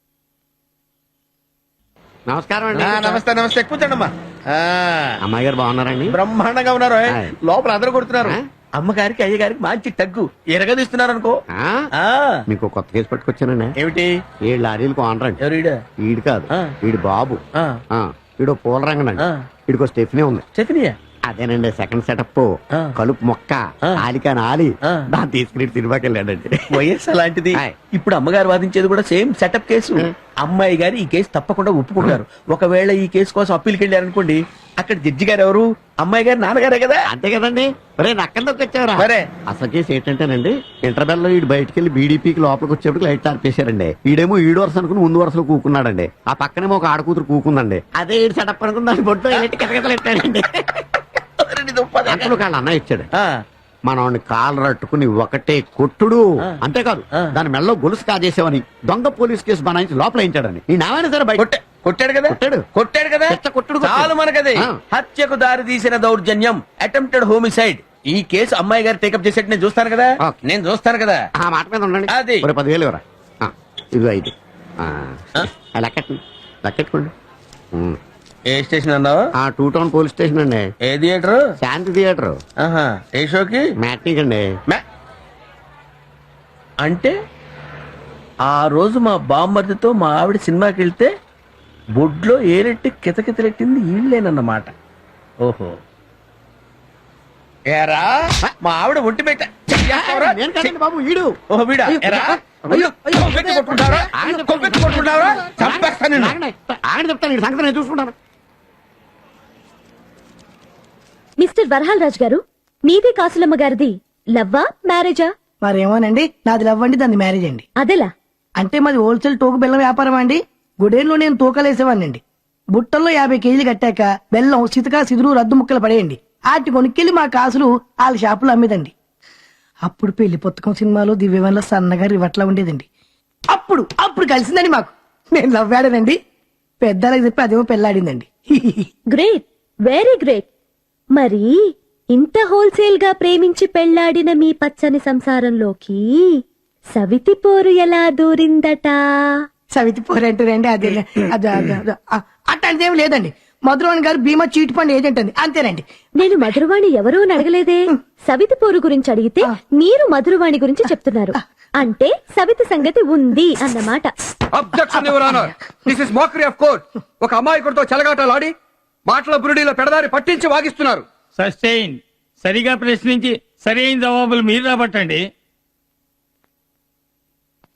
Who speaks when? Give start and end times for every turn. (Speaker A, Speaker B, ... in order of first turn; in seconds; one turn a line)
Speaker A: 2.3-3.2
Speaker B: 2.7-5.2
Speaker A: 5.2-6.2
Speaker B: 6.1-11.4
Speaker A: 7.1-7.3
Speaker A: 11.5-11.8
Speaker B: 12.0-12.4
Speaker A: 12.5-13.7
Speaker B: 13.8-14.2
Speaker A: 14.4-15.4
Speaker B: 15.4-15.8
Speaker A: 16.0-17.4
Speaker B: 16.5-16.8
Speaker A: 17.9-20.4
Speaker B: 19.2-19.5
Speaker B: 20.6-21.0
Speaker A: 21.3-26.9
Speaker B: 26.7-37.1
Speaker A: 37.1-50.9
Speaker B: 39.0-39.3
Speaker B: 51.4-52.4
Speaker A: 52.0-53.1
Speaker A: 53.9-61.5
Speaker B: 61.4-71.3
Speaker A: 62.2-62.6
Speaker A: 63.3-64.8
Speaker A: 71.4-77.1
Speaker B: 72.1-72.5
Speaker B: 78.5-79.2
Speaker A: 79.4-80.7
Speaker B: 80.8-81.5
Speaker A: 81.6-82.4
Speaker B: 82.6-83.7
Speaker A: 83.8-84.5
Speaker B: 86.8-87.1
Speaker B: 88.5-91.1
Speaker B: 92.0-94.7
Speaker B: 95.4-95.7
Speaker B: 97.7-100.7
Speaker A: 99.7-101.4
Speaker B: 101.5-106.4
Speaker A: 101.9-108.2
Speaker C: 102.7-103.7
Speaker D: 111.4-115.3
Speaker E: 115.6-117.7
Speaker D: 117.8-118.1
Speaker E: 118.6-122.2
Speaker E: 122.7-128.9
Speaker E: 129.8-132.9
Speaker E: 133.5-136.2
Speaker E: 136.8-138.9
Speaker D: 139.1-140.5
Speaker D: 141.2-141.6
Speaker D: 142.1-146.4
Speaker D: 146.9-149.4
Speaker E: 149.7-155.8
Speaker D: 156.2-164.1
Speaker C: 164.5-168.5
Speaker E: 165.1-165.5
Speaker C: 169.1-171.1
Speaker F: 171.4-175.3